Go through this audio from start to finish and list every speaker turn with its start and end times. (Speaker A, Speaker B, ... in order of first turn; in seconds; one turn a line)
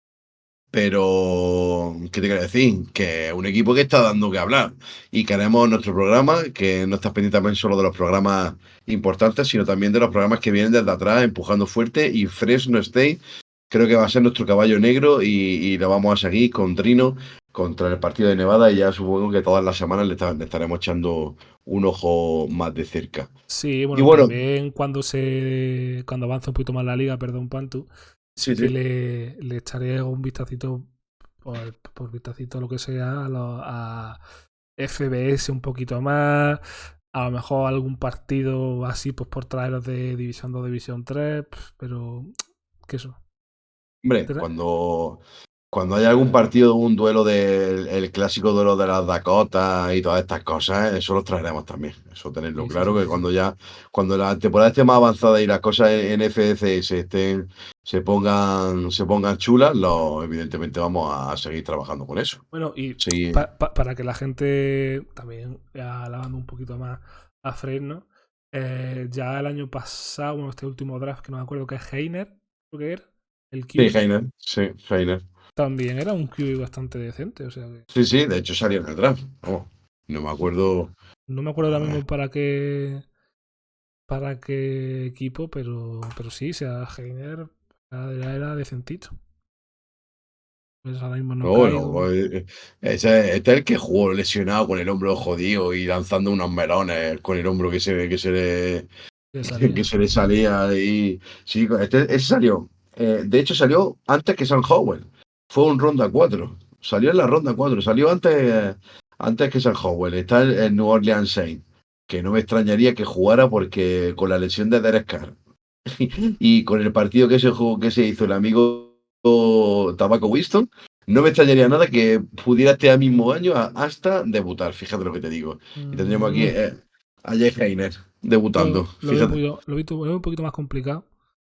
Speaker A: 0.7-23.3
Speaker B: 23.5-27.9
Speaker A: 23.9-24.4
Speaker A: 28.4-28.7
Speaker B: 28.4-30.9
Speaker B: 31.4-34.2
Speaker B: 34.8-36.6
Speaker B: 37.1-42.3
Speaker B: 42.9-43.2
Speaker A: 44.0-62.4
Speaker B: 52.6-53.2
Speaker B: 62.5-74.0
Speaker A: 63.0-63.5
Speaker A: 73.8-75.2
Speaker B: 75.6-77.8
Speaker A: 77.9-80.9
Speaker B: 81.3-83.0
Speaker A: 81.7-82.0
Speaker B: 84.1-89.1
Speaker B: 90.8-92.1
Speaker A: 91.4-98.9
Speaker B: 99.3-99.9
Speaker A: 99.4-129.4
Speaker B: 125.8-126.5
Speaker B: 128.6-131.1